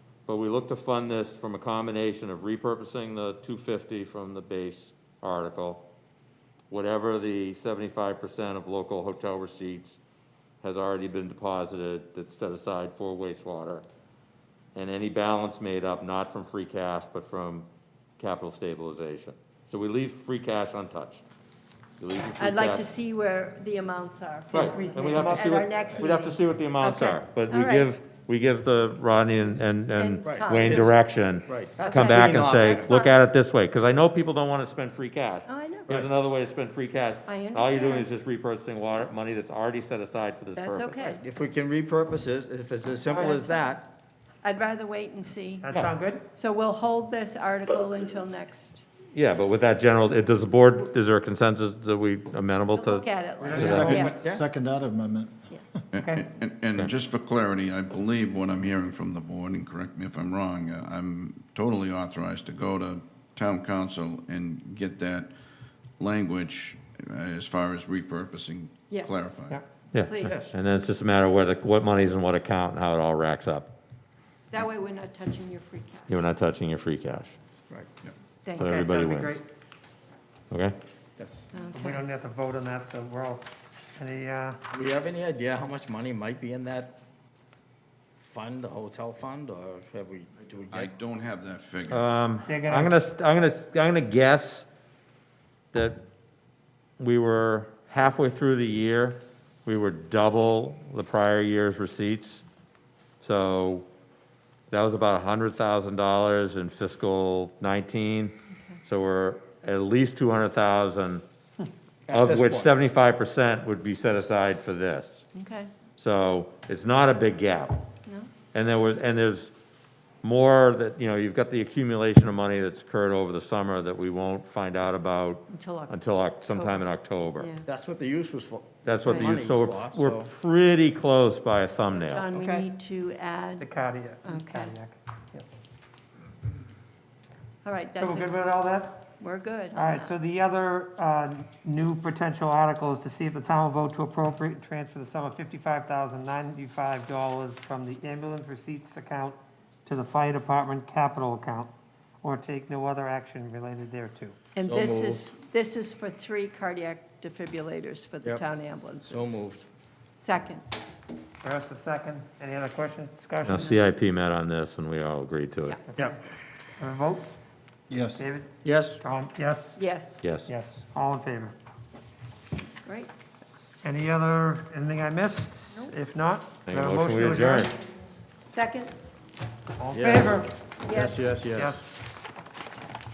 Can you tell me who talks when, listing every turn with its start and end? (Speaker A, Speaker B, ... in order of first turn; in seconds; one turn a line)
Speaker A: 0.3-5.9
Speaker A: 6.7-10.0
Speaker A: 10.6-13.8
Speaker A: 14.7-17.7
Speaker A: 18.2-21.2
Speaker A: 22.0-22.8
Speaker B: 22.4-27.9
Speaker A: 24.5-41.1
Speaker C: 24.6-25.7
Speaker B: 29.9-31.0
Speaker D: 30.2-30.9
Speaker D: 31.5-32.9
Speaker B: 31.8-33.1
Speaker B: 35.5-36.0
Speaker B: 37.3-38.1
Speaker B: 40.6-41.2
Speaker D: 41.2-43.8
Speaker B: 43.1-43.8
Speaker B: 44.4-45.6
Speaker C: 45.6-46.2
Speaker B: 46.3-48.8
Speaker A: 49.1-54.0
Speaker B: 52.7-54.4
Speaker E: 53.4-55.4
Speaker C: 53.5-54.1
Speaker D: 54.1-54.4
Speaker F: 55.9-65.3
Speaker C: 56.0-56.2
Speaker F: 66.0-69.6
Speaker B: 68.9-69.3
Speaker A: 69.9-73.7
Speaker B: 70.0-70.4
Speaker B: 74.5-76.2
Speaker A: 76.1-77.3
Speaker B: 78.4-78.8
Speaker A: 78.6-79.4
Speaker C: 78.6-79.4
Speaker A: 80.5-80.8
Speaker D: 81.2-81.5
Speaker B: 81.5-82.0
Speaker C: 81.7-84.6
Speaker D: 84.7-87.0
Speaker D: 88.2-90.9
Speaker F: 90.7-92.0
Speaker A: 91.9-94.7
Speaker C: 92.5-92.9
Speaker A: 95.7-96.0
Speaker A: 97.0-102.4
Speaker A: 103.2-103.9
Speaker A: 104.7-108.3
Speaker A: 108.8-111.2
Speaker D: 112.0-112.7
Speaker A: 112.1-115.2
Speaker B: 115.3-115.7
Speaker A: 116.0-117.8
Speaker A: 118.5-119.5
Speaker A: 120.2-127.5
Speaker B: 125.5-125.9
Speaker B: 126.5-126.8
Speaker B: 127.4-127.7
Speaker D: 127.7-130.3
Speaker A: 128.8-132.2
Speaker B: 129.1-129.3
Speaker B: 131.9-133.7
Speaker C: 132.3-132.7
Speaker C: 133.6-135.4
Speaker B: 134.2-134.7
Speaker B: 137.6-138.3
Speaker C: 138.0-139.1
Speaker B: 139.2-140.1
Speaker C: 139.7-154.3
Speaker B: 154.5-159.3
Speaker D: 154.6-155.3
Speaker D: 159.0-159.7
Speaker B: 160.2-160.6
Speaker C: 161.4-163.8
Speaker A: 163.4-165.8
Speaker B: 163.5-163.8
Speaker B: 165.6-166.2
Speaker C: 166.8-167.3
Speaker C: 167.9-169.8
Speaker D: 168.6-169.0
Speaker B: 169.8-170.2
Speaker A: 170.2-170.5
Speaker C: 170.4-171.6
Speaker B: 172.8-173.1
Speaker C: 173.8-177.7
Speaker A: 176.7-177.7
Speaker B: 178.5-178.9
Speaker C: 179.8-180.5
Speaker D: 179.9-181.8
Speaker B: 180.8-181.4
Speaker C: 181.5-181.9